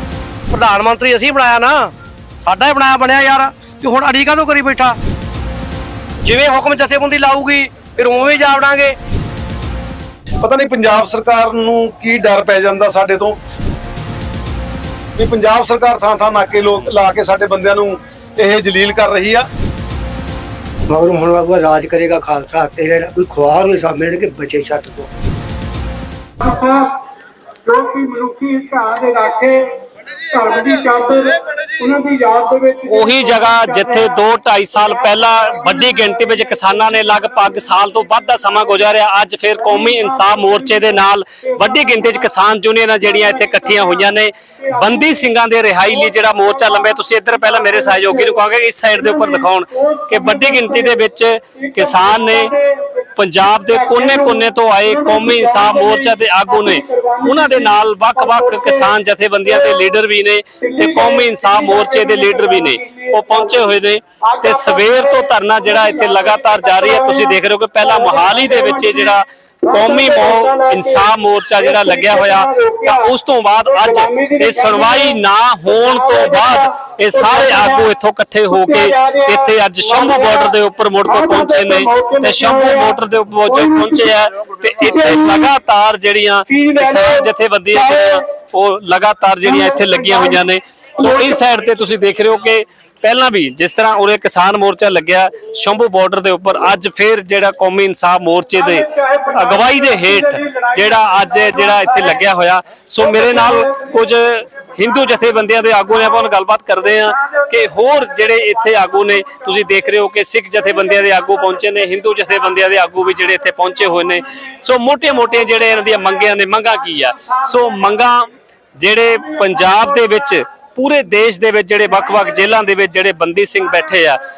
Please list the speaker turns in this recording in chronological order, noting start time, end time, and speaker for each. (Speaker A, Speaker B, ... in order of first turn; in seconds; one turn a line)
Speaker A: 0.5-1.9
Speaker A: 2.4-5.0
Speaker A: 6.2-8.9
Speaker B: 10.4-13.3
Speaker B: 15.2-19.5
Speaker C: 20.9-25.1
Speaker D: 26.4-26.9
Speaker D: 27.7-29.7
Speaker D: 30.2-34.1
Speaker E: 32.9-52.5
Speaker D: 35.7-36.0
Speaker D: 39.8-40.8
Speaker D: 41.4-42.1
Speaker D: 43.2-44.0
Speaker D: 44.9-45.2
Speaker D: 47.6-48.3
Speaker D: 49.0-51.0
Speaker D: 51.6-52.8
Speaker E: 53.2-118.2
Speaker D: 53.7-58.9
Speaker D: 59.4-59.8
Speaker D: 60.6-69.1
Speaker D: 69.7-73.1
Speaker D: 73.6-77.9
Speaker D: 78.5-84.1
Speaker D: 84.8-85.5
Speaker D: 86.5-88.2
Speaker D: 89.4-90.4
Speaker D: 91.0-91.4
Speaker E: 118.8-124.2